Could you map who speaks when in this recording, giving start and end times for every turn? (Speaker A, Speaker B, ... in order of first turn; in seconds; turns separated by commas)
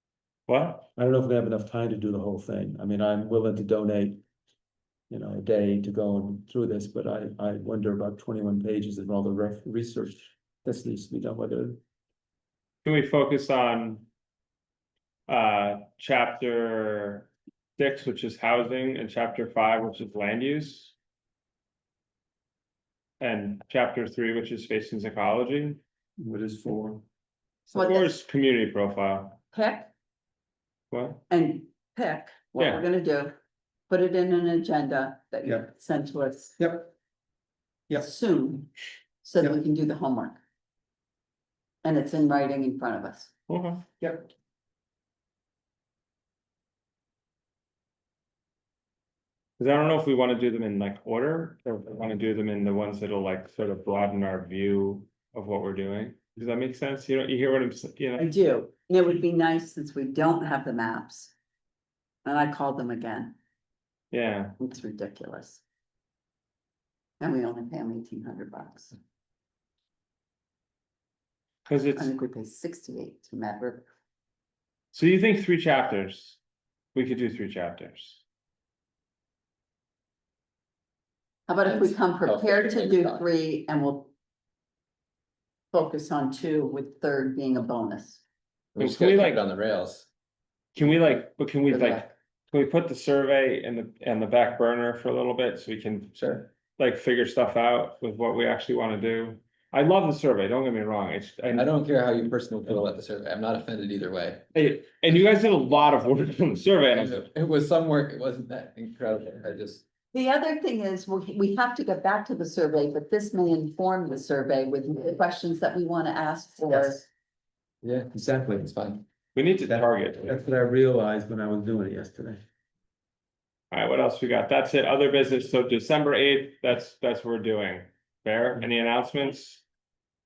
Speaker A: 0.5-0.9, Speaker B: 1.0-4.2, Speaker B: 5.1-11.8, Speaker A: 12.8-14.1, Speaker A: 15.3-20.9, Speaker A: 23.2-25.8, Speaker B: 26.2-27.0, Speaker A: 27.7-29.4, Speaker C: 27.7-28.1, Speaker C: 29.5-29.9, Speaker A: 30.9-31.2, Speaker C: 31.3-33.3, Speaker A: 32.6-32.9, Speaker C: 33.9-36.6, Speaker B: 36.6-36.9, Speaker C: 38.0-38.7, Speaker C: 39.2-40.4, Speaker C: 41.8-43.3, Speaker A: 43.5-43.9, Speaker B: 44.0-44.3, Speaker A: 49.6-58.3, Speaker C: 58.2-61.3, Speaker C: 62.2-63.4, Speaker A: 64.1-64.5, Speaker C: 64.6-65.6, Speaker C: 67.2-69.0, Speaker A: 71.7-72.1, Speaker C: 72.0-73.9, Speaker A: 74.9-76.4, Speaker A: 77.0-78.2, Speaker C: 81.5-84.1, Speaker D: 81.7-83.2, Speaker C: 85.7-88.2, Speaker D: 88.8-90.1, Speaker A: 88.8-89.4, Speaker A: 90.8-101.7, Speaker C: 91.7-92.1, Speaker D: 96.2-96.5, Speaker D: 101.5-104.4, Speaker A: 104.5-107.3, Speaker D: 106.9-109.8, Speaker C: 110.1-117.0, Speaker D: 117.8-119.0, Speaker B: 118.1-118.7, Speaker A: 119.3-120.4, Speaker B: 119.7-122.4, Speaker A: 123.7-129.6